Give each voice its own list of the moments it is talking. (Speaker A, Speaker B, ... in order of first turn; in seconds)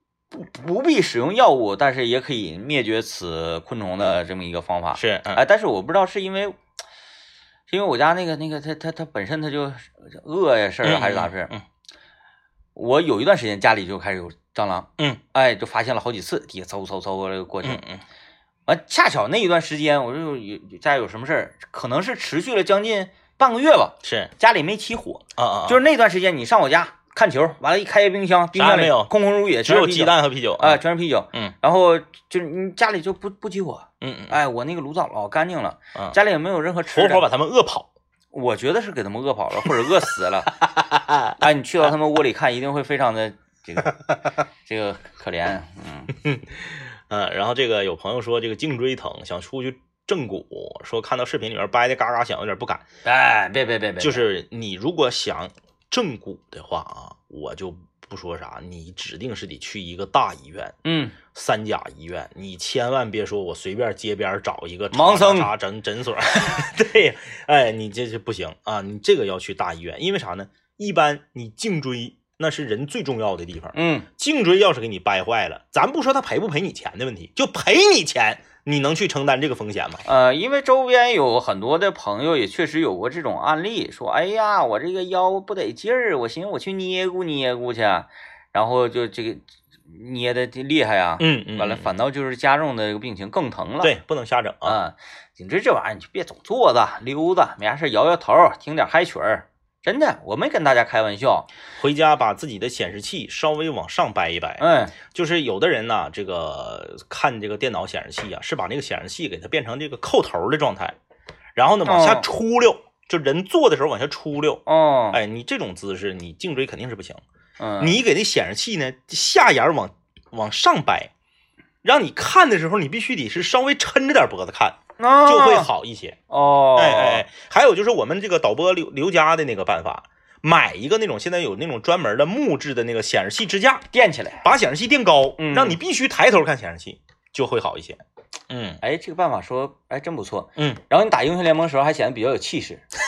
Speaker A: 0.3-6.5, 7.7-11.5, 12.7-17.8, 18.7-37.3, 38.3-40.6, 41.4-44.0, 44.6-46.1, 53.0-54.2, 60.8-61.1, 64.9-65.5, 73.7-74.0, 80.0-94.0, 94.6-101.5, 104.6-104.9, 111.8-112.2, 114.7-115.2, 117.6-118.0, 125.0-125.7, 126.3-127.2, 133.9-134.4, 135.4-135.8, 138.8-142.8
Speaker B: 5.0-5.4, 10.8-11.6, 17.6-18.0, 24.0-24.3, 25.4-25.8, 28.5-29.1, 29.6-30.8, 34.0-34.4, 36.9-37.9, 40.6-41.4, 46.1-52.8, 54.0-60.7, 61.3-80.0, 91.2-91.9, 93.8-94.8, 101.8-110.9, 111.5-117.2, 117.8-121.1, 121.8-126.2, 126.7-133.8, 134.4-138.8